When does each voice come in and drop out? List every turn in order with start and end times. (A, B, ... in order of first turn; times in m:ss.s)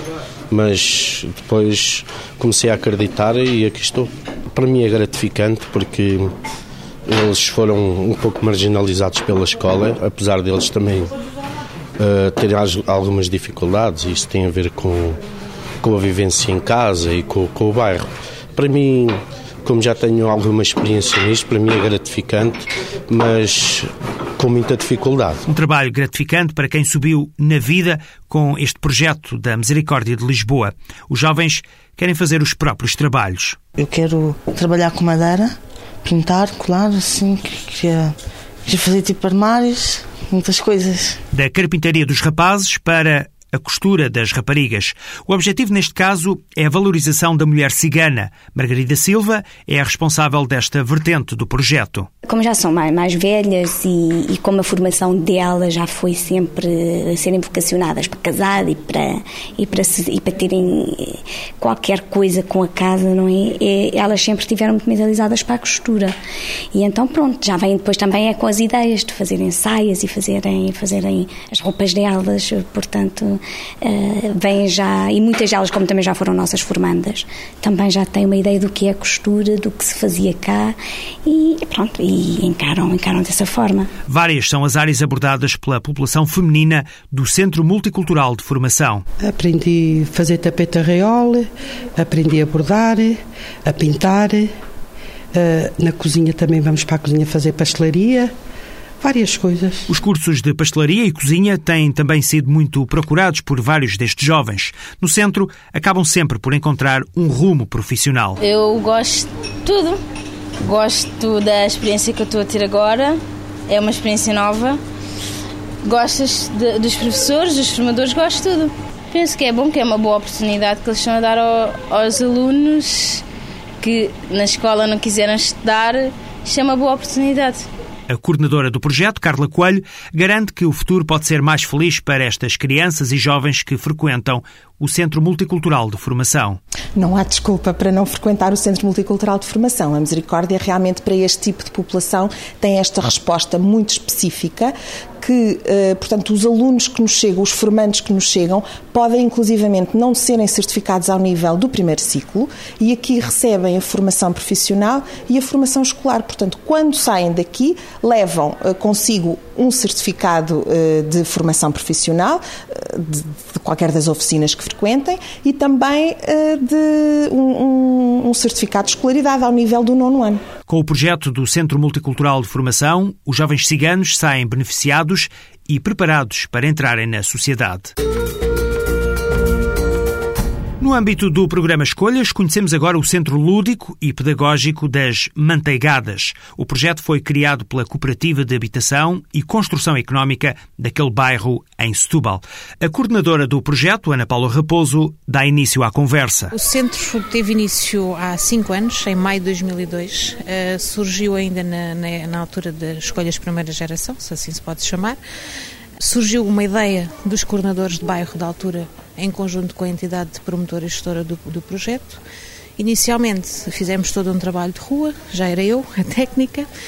0:00.5-0:06.3 A
0:07.1-0:11.1 A
0:12.0-0:15.2 A
0:15.8-0:25.4 A
0:25.4-0:33.6 B
0:33.8-0:38.1 C
0:38.6-0:41.2 C
0:41.3-0:52.1 B
0:52.2-1:06.2 D
1:06.7-1:23.9 D
1:24.1-1:29.0 B
1:29.2-1:34.5 E
1:35.3-1:38.3 E
1:39.0-1:39.9 E
1:39.9-1:48.4 B
1:48.4-1:50.0 F
1:50.6-1:54.8 F
1:55.8-2:03.2 F
2:03.8-2:07.7 F
2:08.1-2:16.6 B
2:17.0-2:50.4 G
2:50.7-2:57.9 B
3:00.8-3:16.5 B
3:16.5-3:25.2 H
3:26.0-3:32.2 H
3:32.8-3:36.7 H